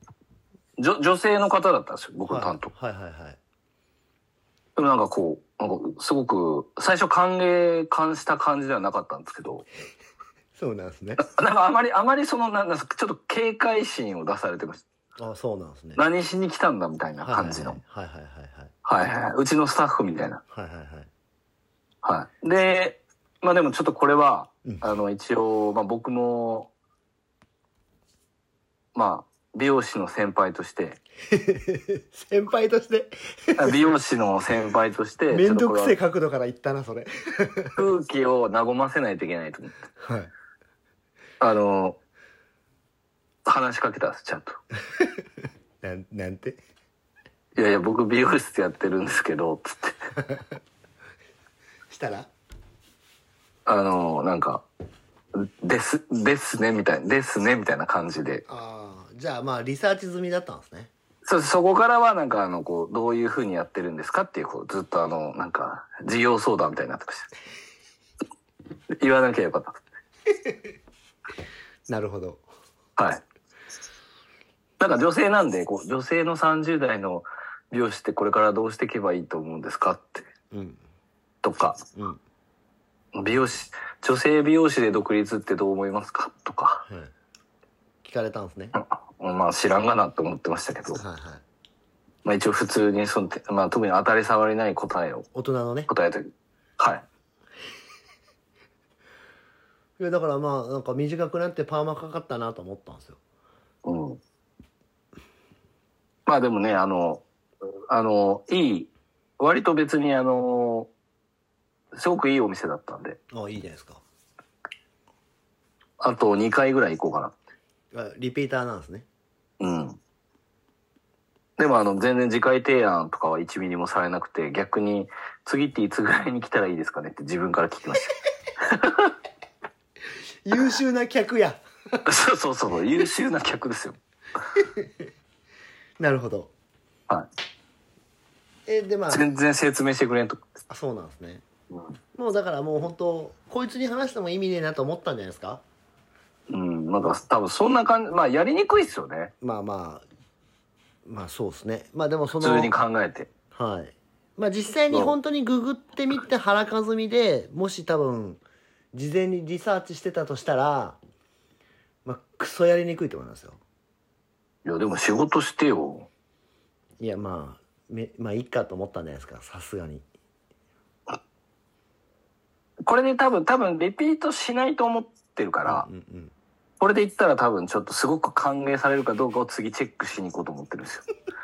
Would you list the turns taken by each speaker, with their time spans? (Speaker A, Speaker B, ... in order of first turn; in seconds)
Speaker A: 0.8-2.7, 4.8-9.7, 11.2-14.8, 16.0-17.8, 18.8-20.4, 22.0-26.7, 28.9-31.0, 33.6-36.0, 37.8-39.8, 41.4-42.0, 43.5-44.6, 47.6-50.0, 53.7-54.6, 55.4-58.4, 61.2-67.3, 69.0-69.8, 73.0-73.2, 74.8-80.2, 81.4-81.8, 83.1-86.8, 88.7-91.0, 92.2-95.3, 95.9-97.0, 103.8-104.2, 106.2-107.2, 107.9-110.9, 111.9-113.2, 116.0-117.3, 119.6-120.0, 121.6-129.1, 132.1-134.0, 139.1-140.4, 146.5-149.3, 152.4-153.3, 154.9-155.1, 164.6-166.1, 172.8-175.9, 176.8-181.1
Speaker B: 2.3-3.4, 10.6-11.2, 15.2-16.0, 17.2-18.7, 20.5-21.1, 31.3-33.8, 35.3-37.8, 40.0-40.3, 45.8-46.6, 51.9-52.3, 58.5-60.9, 71.9-72.4, 80.5-80.8, 88.0-88.8, 90.9-91.4, 95.3-95.9, 100.0-103.2, 113.3-114.0, 117.9-119.1, 130.4-132.0, 134.6-134.9, 136.0-136.5, 138.7-139.3, 140.7-141.4, 142.2-145.6, 149.4-150.1, 151.1-152.7, 153.5-158.4, 158.9-161.0, 162.1-163.6, 167.0-170.1, 175.6-176.3